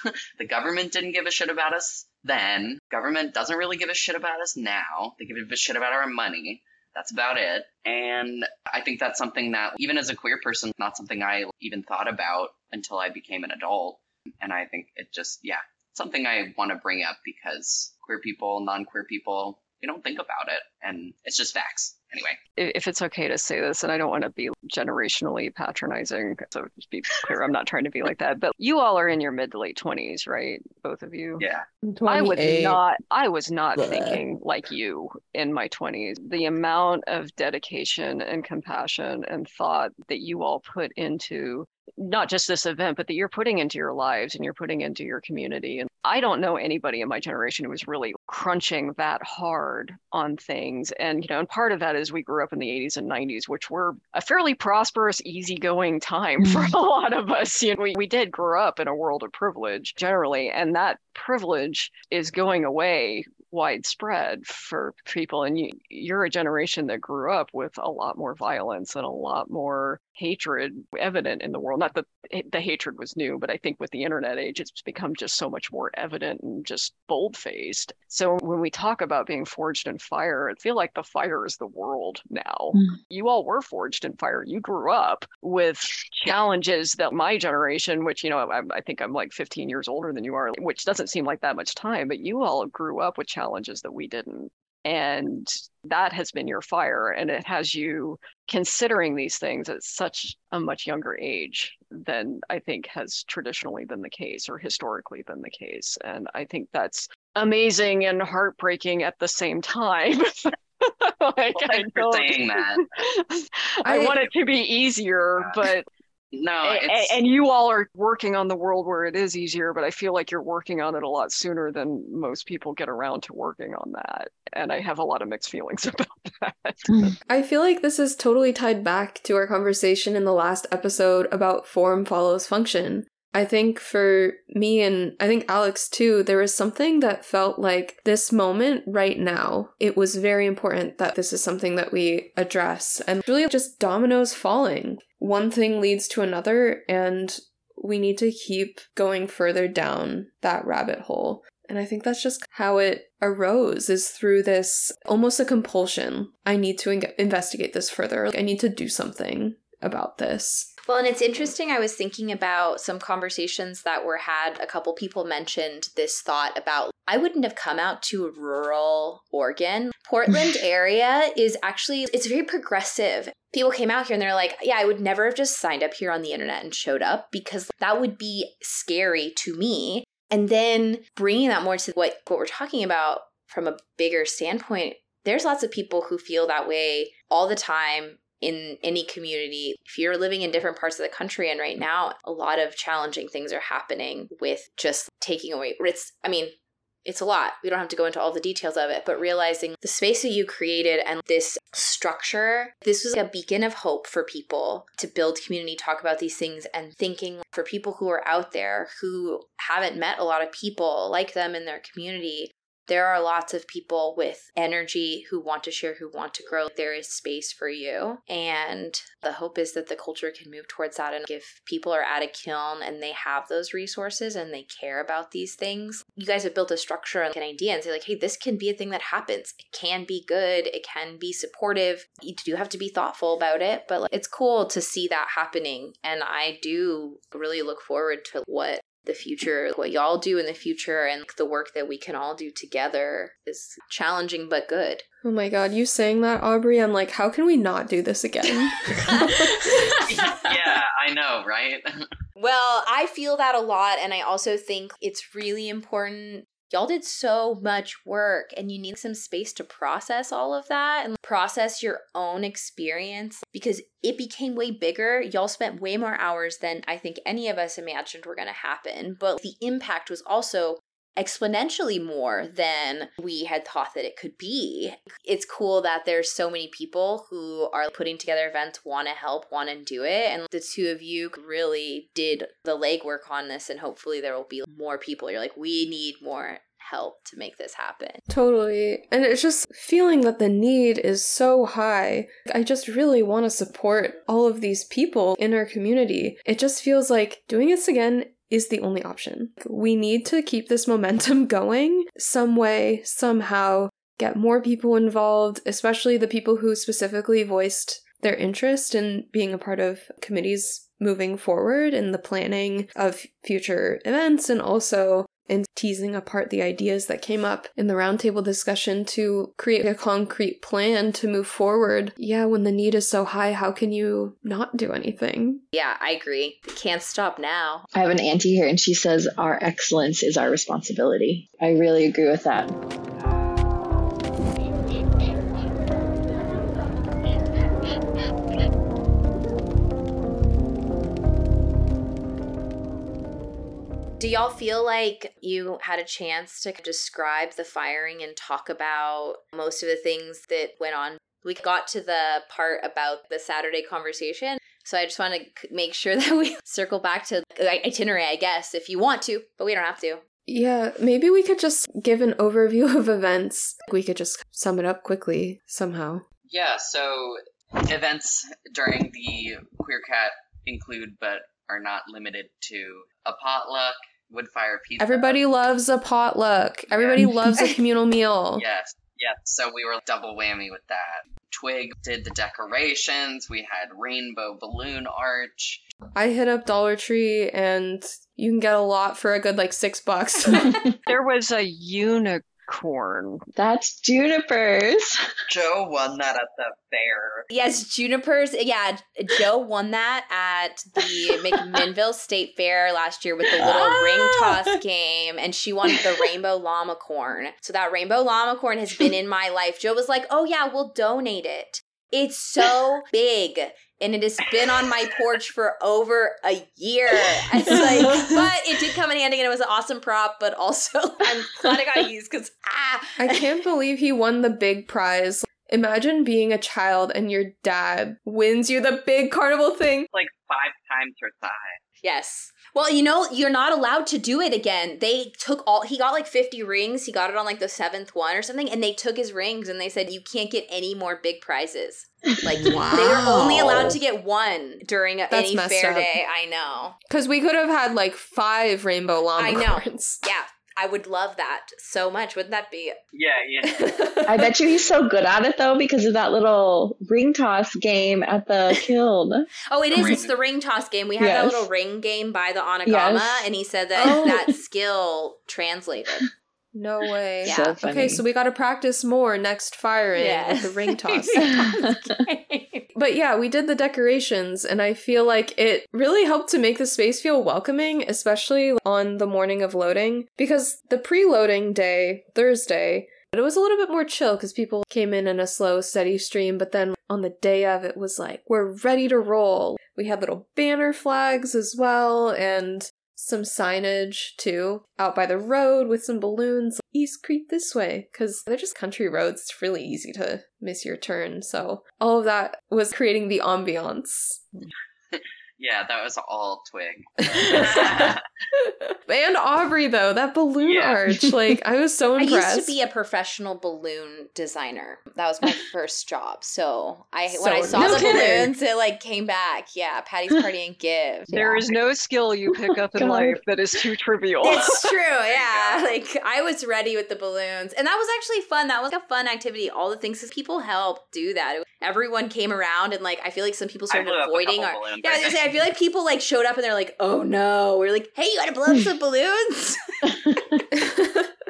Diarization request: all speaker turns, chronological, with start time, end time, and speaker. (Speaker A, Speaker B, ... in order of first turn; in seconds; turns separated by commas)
Speaker A: 0.4-22.4, Speaker B: 22.6-31.4, Speaker A: 31.4-31.6, Speaker C: 31.8-32.8, Speaker B: 32.0-115.9, Speaker C: 33.8-34.2, Speaker A: 111.5-112.8, Speaker C: 113.8-114.1, Speaker A: 115.4-115.7, Speaker A: 116.3-117.2, Speaker B: 116.6-127.1, Speaker C: 127.3-160.7, Speaker D: 160.8-245.0, Speaker C: 245.2-249.5, Speaker D: 249.0-249.3, Speaker A: 250.0-251.8, Speaker D: 252.4-288.2, Speaker C: 288.3-325.6, Speaker D: 325.7-327.9, Speaker E: 327.9-332.7, Speaker D: 344.2-360.2, Speaker C: 360.5-366.2, Speaker A: 366.5-375.4, Speaker C: 375.0-378.6, Speaker A: 376.9-377.3, Speaker A: 378.6-385.8, Speaker C: 386.1-390.9, Speaker B: 391.1-393.4, Speaker E: 393.6-395.2, Speaker A: 395.5-397.4, Speaker D: 397.5-423.5, Speaker C: 423.2-430.1, Speaker A: 430.1-431.8, Speaker D: 432.0-447.0, Speaker C: 442.6-444.0, Speaker C: 445.3-446.1, Speaker C: 447.1-450.2, Speaker D: 449.4-453.0, Speaker A: 453.1-453.9, Speaker C: 453.6-454.5, Speaker E: 454.2-459.5, Speaker D: 459.7-466.3, Speaker A: 459.9-460.3, Speaker E: 461.2-461.7, Speaker E: 462.8-463.5, Speaker C: 464.0-464.3, Speaker E: 464.0-464.4, Speaker C: 466.7-471.6, Speaker E: 467.4-468.2, Speaker D: 467.4-467.8, Speaker D: 470.1-472.9, Speaker E: 471.5-471.9, Speaker C: 472.9-504.4, Speaker A: 505.1-508.2, Speaker C: 507.3-512.7, Speaker A: 510.6-511.0, Speaker D: 512.2-521.3, Speaker C: 517.3-518.5, Speaker E: 517.7-518.3, Speaker E: 521.3-521.7, Speaker B: 521.3-524.9, Speaker E: 522.7-523.4, Speaker D: 524.4-540.4, Speaker A: 525.2-525.9, Speaker A: 533.9-535.4, Speaker E: 540.2-540.6, Speaker C: 540.7-541.3